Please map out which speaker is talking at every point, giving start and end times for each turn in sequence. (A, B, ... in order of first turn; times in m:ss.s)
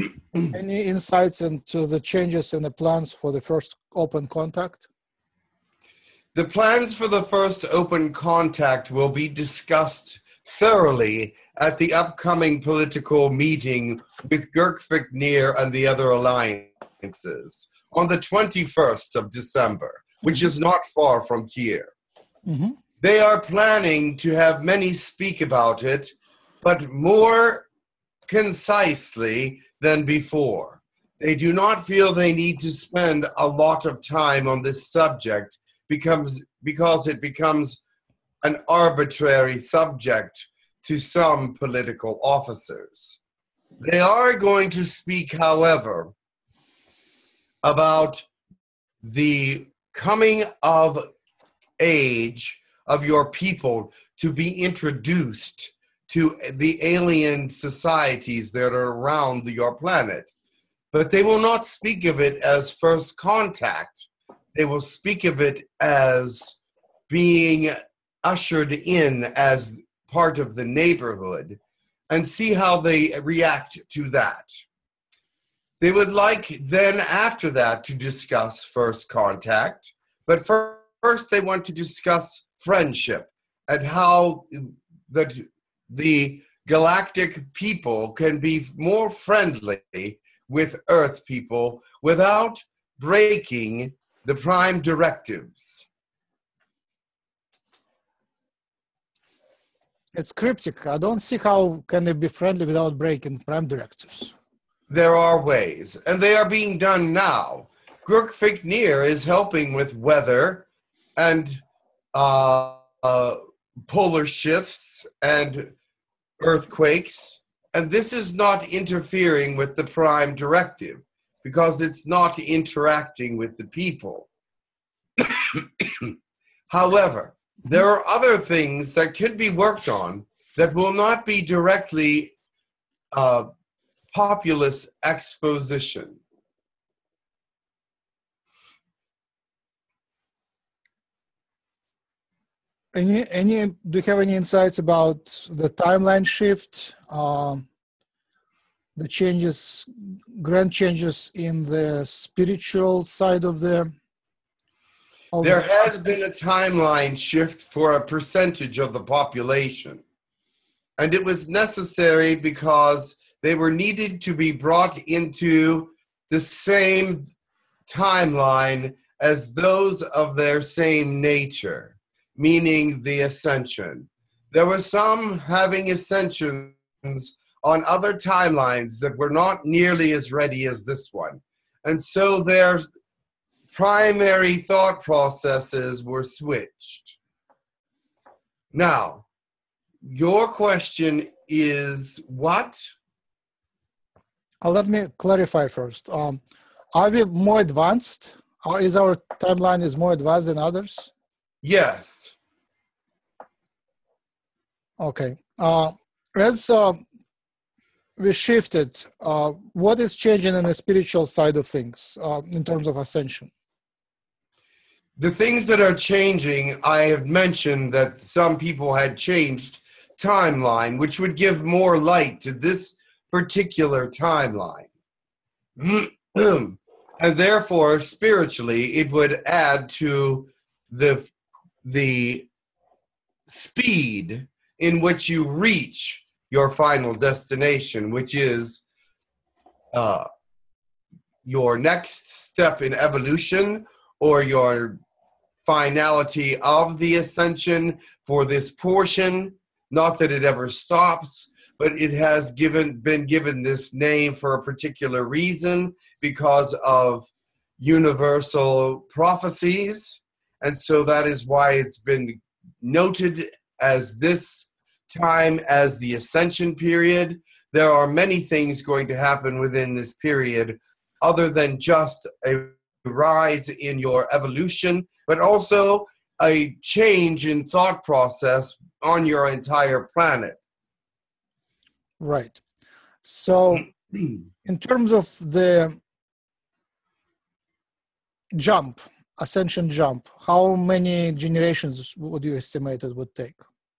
0:00.5-0:04.8 A
0:06.3-0:21.9 B
0:22.5-0:22.8 A
0:23.0-0:27.7 B
0:28.3-0:37.8 B
0:38.4-0:43.2 B
0:43.8-0:46.1 B
0:47.6-0:48.2 B
0:49.0-0:51.0 B
0:51.8-1:00.3 B
1:00.9-1:06.6 B
1:07.1-1:14.6 B
1:15.8-1:35.9 B
1:40.1-1:44.3 A
1:44.9-1:50.6 B
1:51.2-1:51.6 B
1:52.1-1:55.7 B
1:56.4-2:04.3 B
2:05.2-2:06.2 B
2:06.7-2:12.3 B
2:13.1-2:13.5 B
2:14.1-2:16.2 B
2:22.9-2:27.7 A
2:29.0-2:33.9 A
2:35.3-2:36.2 A
2:35.4-2:40.0 B
2:41.0-2:47.3 B
2:47.9-3:02.9 B
3:03.7-3:07.2 B
3:08.7-3:09.2 B
3:10.0-3:12.9 B
3:14.6-3:16.4 A
3:16.9-3:21.1 A
3:21.6-3:22.4 B
3:25.0-3:27.0 A
3:28.2-3:33.5 A
3:35.2-3:44.9 B
3:45.8-3:51.3 B
3:51.8-3:52.5 B
3:53.5-3:58.8 B
3:59.9-4:00.3 B
4:01.4-4:05.0 B
4:05.6-4:40.6 B
4:42.2-4:42.6 A
4:43.2-4:43.9 A
4:44.6-4:46.0 A
4:48.6-4:53.6 A